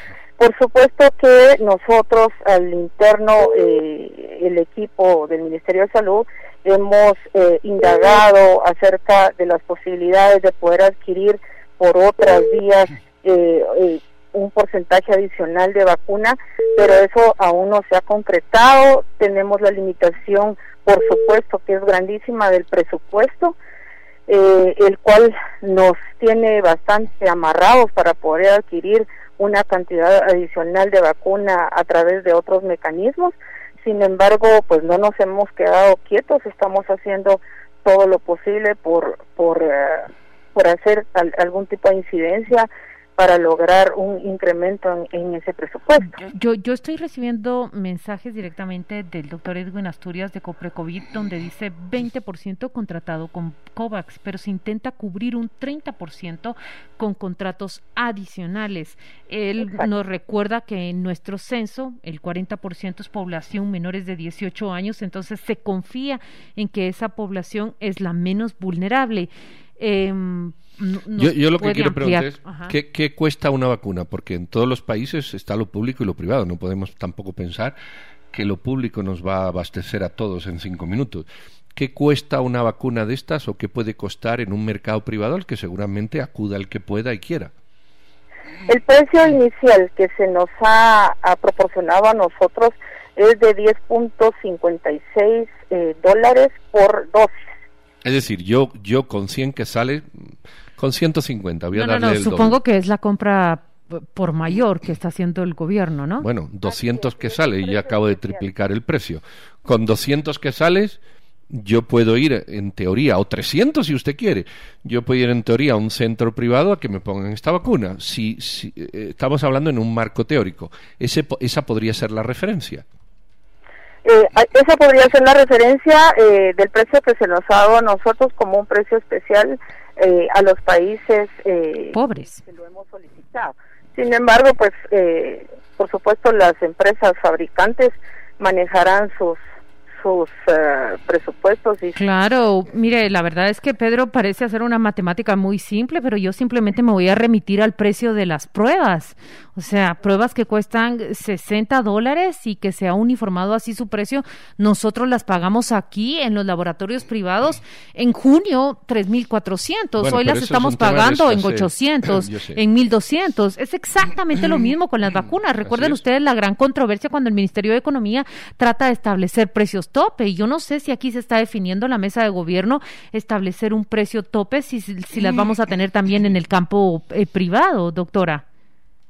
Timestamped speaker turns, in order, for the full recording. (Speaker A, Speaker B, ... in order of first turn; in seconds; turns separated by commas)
Speaker A: 0.4-23.6, Speaker A: 24.3-46.1, Speaker B: 46.2-72.7, Speaker A: 59.6-59.9, Speaker C: 71.2-77.8, Speaker C: 78.3-87.5, Speaker A: 88.7-97.3, Speaker C: 98.0-102.6, Speaker B: 101.7-106.3, Speaker C: 106.2-111.0, Speaker A: 106.7-108.4, Speaker C: 111.5-122.8, Speaker A: 124.0-139.4, Speaker B: 131.9-132.4, Speaker A: 140.0-142.0, Speaker B: 142.0-178.4, Speaker C: 160.0-162.6, Speaker C: 165.7-166.0